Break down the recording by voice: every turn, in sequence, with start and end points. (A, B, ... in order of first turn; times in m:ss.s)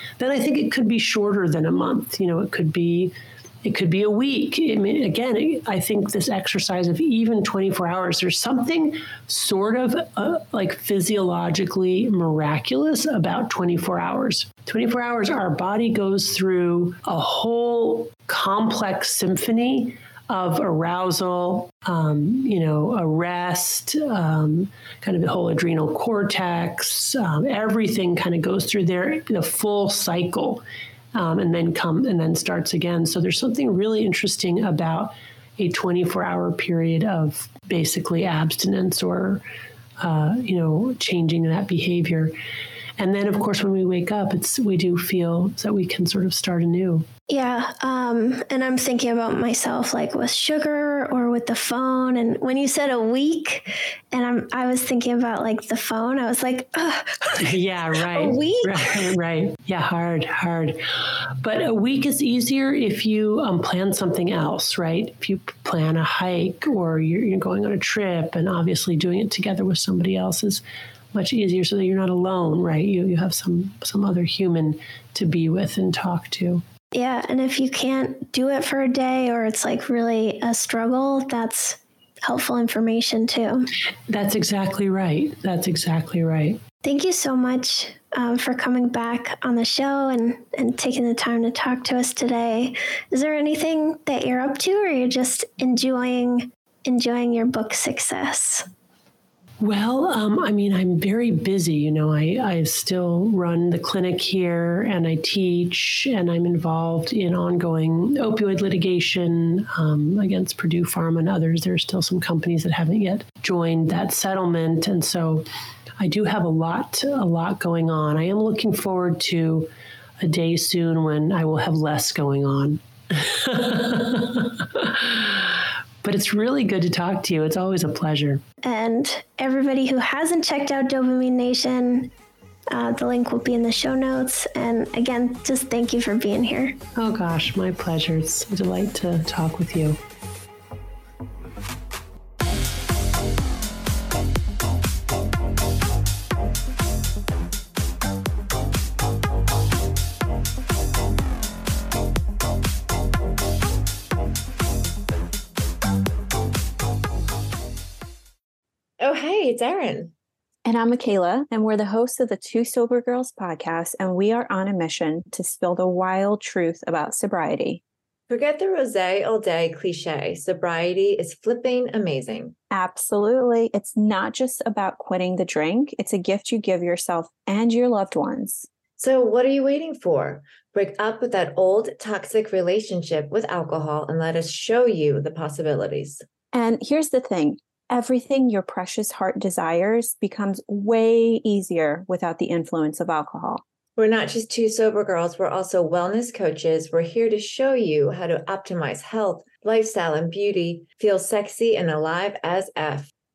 0:00.2-0:30.6 A
0:31.2-0:39.4 A
0:40.0-0:42.3 A
0:43.0-0:47.1 A
0:47.3-0:57.5 B
0:57.4-1:16.6 A
0:58.1-0:59.0 B
1:16.9-1:23.7 B
1:24.1-1:26.6 A
1:26.8-1:38.7 B
1:39.6-1:55.4 A
1:56.0-2:08.4 A
2:08.6-2:12.1 B
2:12.7-2:16.8 B
2:17.0-2:20.0 A
2:39.0-2:40.1 C
2:40.6-2:47.8 D
2:48.3-2:52.6 C
2:52.7-2:58.7 D
2:59.0-3:06.2 C
3:06.5-3:13.6 D
3:14.0-3:23.1 C